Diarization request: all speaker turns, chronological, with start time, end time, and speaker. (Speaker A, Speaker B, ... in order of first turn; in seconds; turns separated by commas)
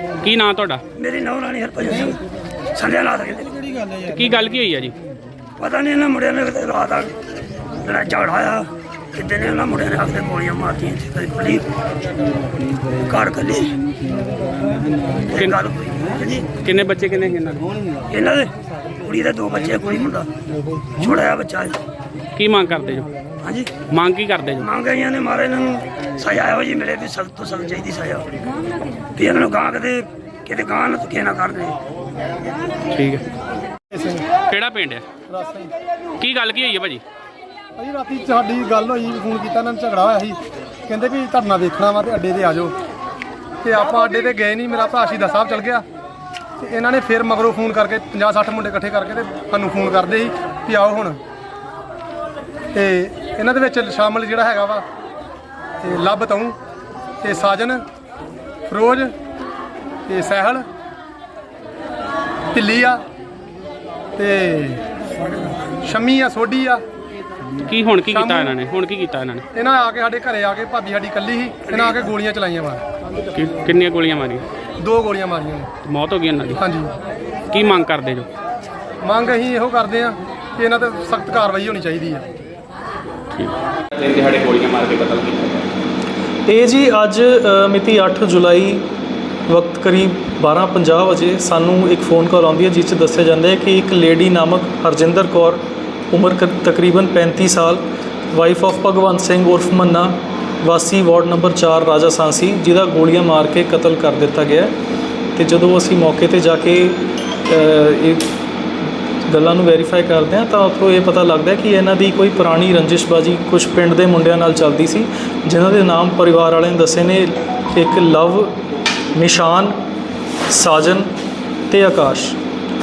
Speaker A: 0.2-0.8, Speaker B: 1.0-2.2, Speaker B: 2.8-3.6, Speaker A: 4.0-5.0, Speaker B: 5.6-7.1, Speaker B: 7.8-11.7, Speaker B: 13.1-13.8, Speaker A: 15.3-15.6, Speaker B: 15.3-16.5, Speaker A: 16.6-17.6, Speaker B: 18.1-18.5, Speaker B: 19.0-20.3, Speaker B: 21.0-21.8, Speaker A: 22.4-23.1, Speaker B: 23.4-23.7, Speaker A: 23.9-24.7, Speaker B: 24.6-28.3, Speaker B: 29.1-31.8, Speaker A: 32.9-33.3, Speaker C: 33.9-34.3, Speaker A: 34.5-35.0, Speaker C: 35.3-35.7, Speaker A: 36.2-37.0, Speaker C: 37.8-42.8, Speaker C: 43.6-45.9, Speaker C: 46.6-51.2, Speaker C: 52.7-54.9, Speaker C: 55.8-56.6, Speaker C: 57.2-57.8, Speaker C: 58.7-59.1, Speaker C: 60.1-60.6, Speaker C: 62.5-63.0, Speaker C: 64.2-64.8, Speaker C: 65.8-66.8, Speaker A: 67.7-69.5, Speaker C: 68.1-68.5, Speaker C: 69.5-72.8, Speaker A: 73.3-74.4, Speaker C: 74.8-75.7, Speaker A: 75.8-76.6, Speaker C: 76.6-76.9, Speaker A: 77.5-78.3, Speaker C: 79.0-82.3, Speaker A: 83.3-85.7, Speaker D: 86.5-88.8, Speaker D: 89.5-104.7, Speaker D: 105.3-108.2, Speaker D: 109.3-118.6, Speaker D: 119.1-119.7, Speaker D: 120.5-121.1, Speaker D: 121.7-122.4